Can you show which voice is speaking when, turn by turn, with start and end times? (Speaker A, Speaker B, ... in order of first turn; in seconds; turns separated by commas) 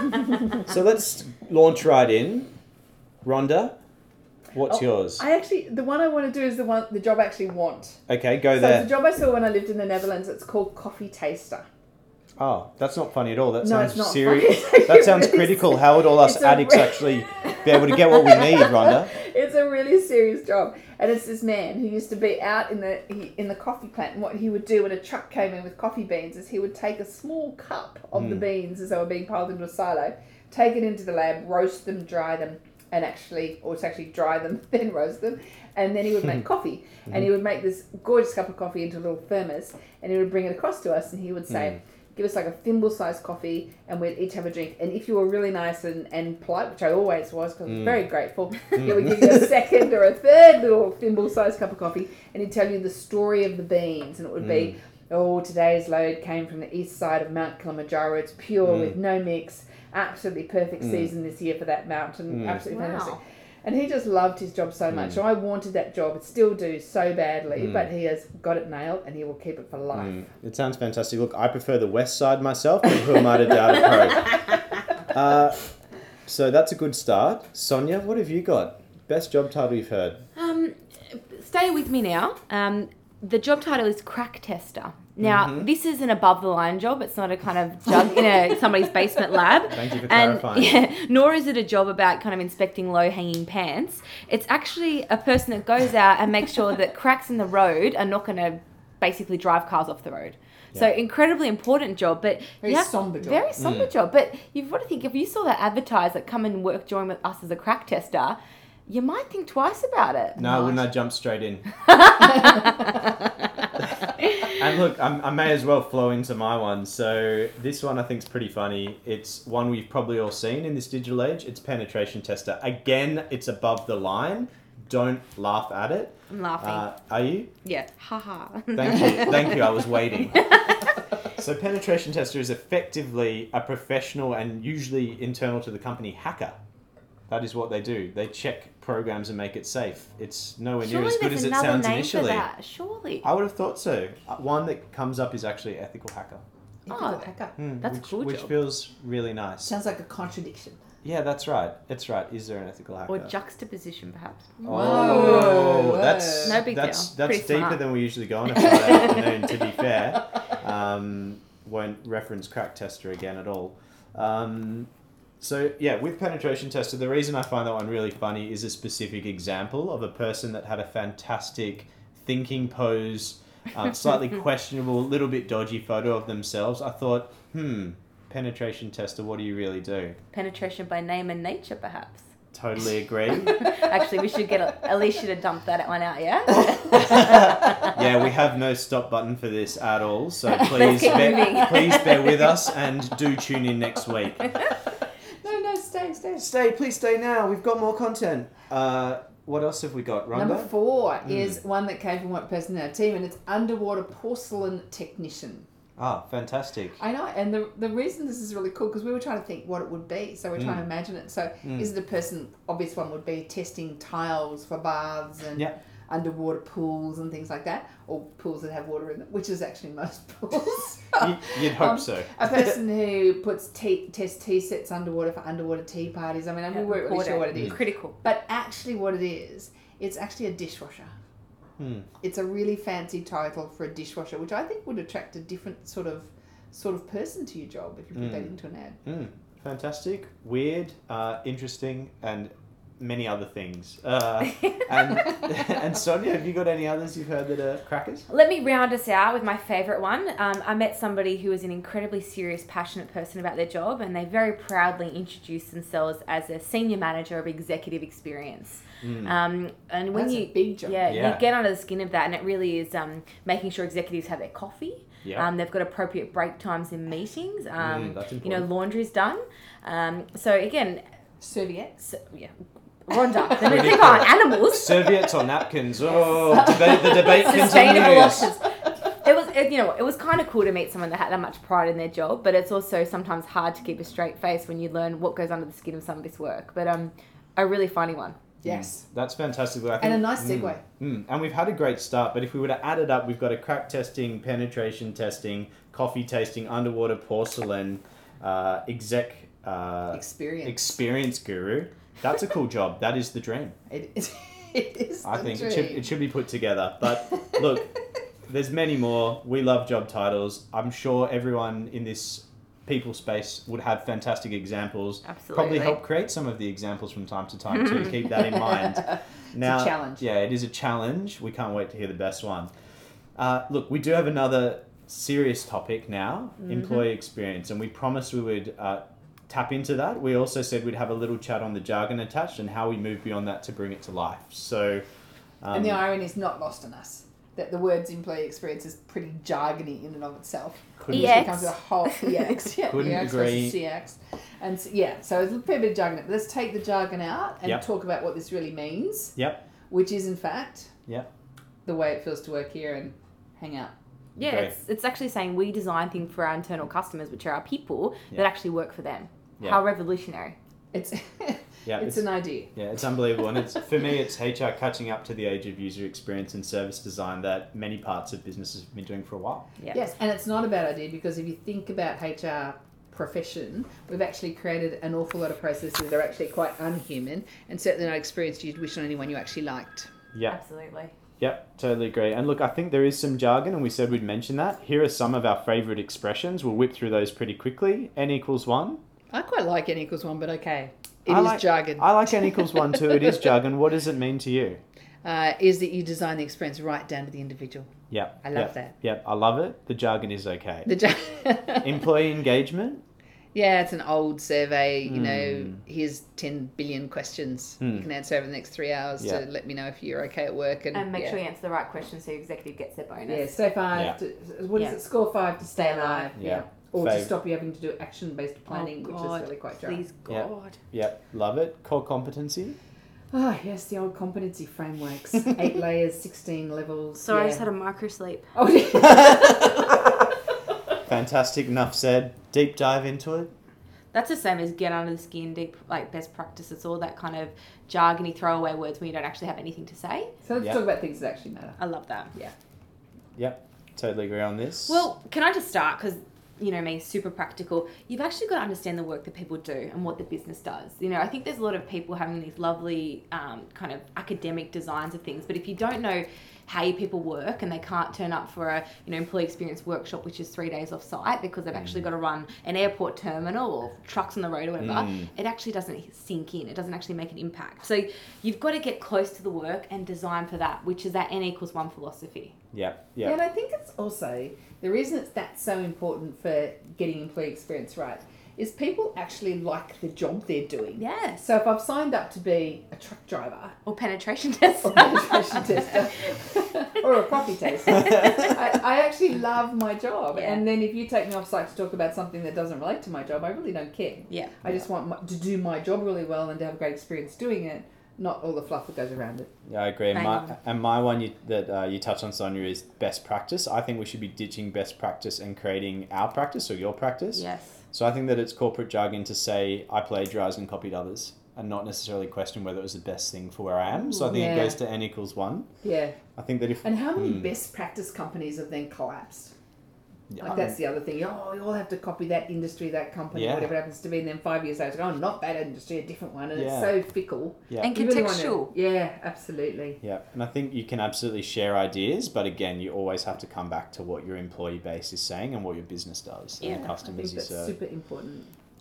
Speaker A: 0.5-2.5, Speaker A: 3.2-3.8, Speaker A: 4.5-5.2, Speaker B: 4.7-8.0, Speaker A: 8.1-8.9, Speaker B: 8.5-11.7, Speaker A: 12.4-19.1, Speaker B: 13.6-70.2, Speaker A: 28.1-28.5, Speaker A: 48.8-49.3, Speaker A: 54.4-54.7, Speaker A: 58.7-58.9, Speaker A: 60.8-61.1, Speaker A: 62.3-62.6, Speaker C: 62.7-63.2, Speaker A: 67.6-67.9, Speaker A: 69.9-74.4, Speaker A: 75.1-75.6, Speaker A: 76.3-80.2, Speaker C: 80.4-110.8, Speaker A: 85.2-85.7, Speaker A: 89.7-90.9, Speaker B: 102.6-103.6, Speaker A: 103.6-103.9, Speaker A: 110.4-111.7, Speaker C: 111.8-113.0, Speaker A: 114.5-127.5, Speaker C: 126.3-126.9, Speaker C: 127.6-130.9, Speaker A: 128.8-130.6, Speaker A: 131.3-136.6, Speaker A: 137.3-142.5, Speaker C: 140.8-143.2, Speaker A: 143.2-146.4, Speaker B: 146.9-147.6, Speaker C: 146.9-147.3, Speaker A: 147.6-149.8, Speaker C: 147.8-148.6, Speaker B: 149.7-150.8, Speaker A: 151.0-153.3, Speaker C: 153.1-155.7, Speaker B: 154.6-156.6, Speaker A: 154.7-164.9, Speaker C: 156.4-157.9, Speaker C: 158.6-159.3, Speaker A: 165.4-180.2, Speaker C: 180.3-182.3, Speaker A: 182.5-183.6, Speaker C: 183.4-187.9, Speaker A: 187.0-194.6, Speaker B: 190.6-192.1, Speaker C: 190.7-192.3, Speaker B: 195.4-196.5, Speaker A: 196.4-200.7, Speaker B: 200.3-205.7, Speaker A: 201.2-201.6, Speaker A: 206.0-207.0, Speaker B: 207.0-231.1, Speaker A: 210.6-210.8, Speaker A: 211.6-211.9, Speaker A: 221.2-222.8, Speaker C: 226.7-228.2, Speaker A: 231.8-232.1, Speaker B: 232.2-239.0, Speaker A: 238.2-238.5, Speaker A: 239.1-248.3, Speaker C: 244.6-244.9, Speaker C: 248.3-271.0, Speaker A: 259.0-259.4, Speaker B: 260.1-261.1, Speaker A: 261.1-261.4, Speaker A: 265.2-265.5, Speaker A: 267.8-268.7, Speaker B: 271.4-272.0, Speaker C: 272.0-272.5, Speaker C: 273.1-275.3, Speaker A: 273.6-278.5, Speaker B: 276.3-278.2, Speaker C: 276.5-278.6, Speaker C: 279.2-288.4, Speaker B: 288.6-289.1, Speaker A: 288.6-303.8, Speaker B: 290.0-290.8, Speaker B: 300.1-301.0, Speaker B: 303.9-306.1, Speaker A: 305.2-307.9, Speaker B: 307.3-307.6, Speaker A: 308.5-322.7, Speaker C: 315.2-316.0, Speaker B: 319.6-320.3, Speaker A: 323.4-335.0, Speaker A: 335.6-336.0, Speaker B: 335.7-349.4, Speaker A: 341.0-341.6, Speaker C: 341.1-342.4, Speaker A: 342.9-343.8, Speaker A: 349.4-349.6, Speaker B: 349.9-350.9, Speaker B: 351.9-353.9, Speaker C: 354.4-360.6, Speaker A: 354.4-354.8, Speaker B: 360.9-362.7, Speaker A: 361.9-369.6, Speaker B: 369.9-380.1, Speaker C: 380.5-381.1, Speaker A: 381.4-389.0, Speaker B: 389.3-393.4, Speaker A: 391.3-394.8, Speaker B: 395.2-397.9, Speaker A: 398.1-400.9, Speaker B: 398.4-398.9, Speaker B: 400.9-402.0, Speaker A: 401.8-403.0, Speaker B: 403.5-411.4, Speaker A: 405.1-405.8, Speaker A: 407.8-408.1, Speaker C: 410.9-413.5, Speaker B: 413.3-420.0, Speaker C: 415.7-416.3, Speaker A: 416.4-417.3, Speaker C: 418.7-420.8, Speaker A: 420.3-422.8, Speaker B: 423.3-427.6, Speaker C: 427.2-428.5, Speaker B: 428.6-430.0, Speaker A: 429.1-429.5, Speaker A: 431.1-433.5, Speaker C: 434.1-440.3, Speaker B: 440.4-441.8, Speaker C: 441.8-442.3, Speaker A: 443.4-445.1, Speaker C: 444.9-472.5, Speaker A: 461.8-462.1, Speaker A: 464.8-465.3, Speaker A: 472.7-473.4, Speaker B: 473.2-483.8, Speaker C: 481.0-481.5, Speaker C: 483.9-486.1, Speaker B: 484.8-499.5, Speaker C: 487.9-488.6, Speaker C: 490.3-490.6, Speaker C: 494.3-494.5, Speaker A: 499.7-515.7, Speaker C: 500.1-500.6, Speaker C: 507.4-507.8, Speaker C: 514.0-514.4, Speaker B: 514.3-514.8, Speaker B: 515.8-516.2, Speaker A: 516.4-517.5, Speaker B: 516.8-519.5, Speaker A: 520.3-520.7, Speaker C: 520.4-520.7, Speaker B: 520.4-530.0, Speaker A: 523.3-523.7, Speaker A: 526.5-527.0, Speaker A: 527.7-528.0, Speaker C: 527.8-528.7, Speaker A: 530.0-537.8, Speaker C: 536.6-536.9, Speaker B: 536.6-538.5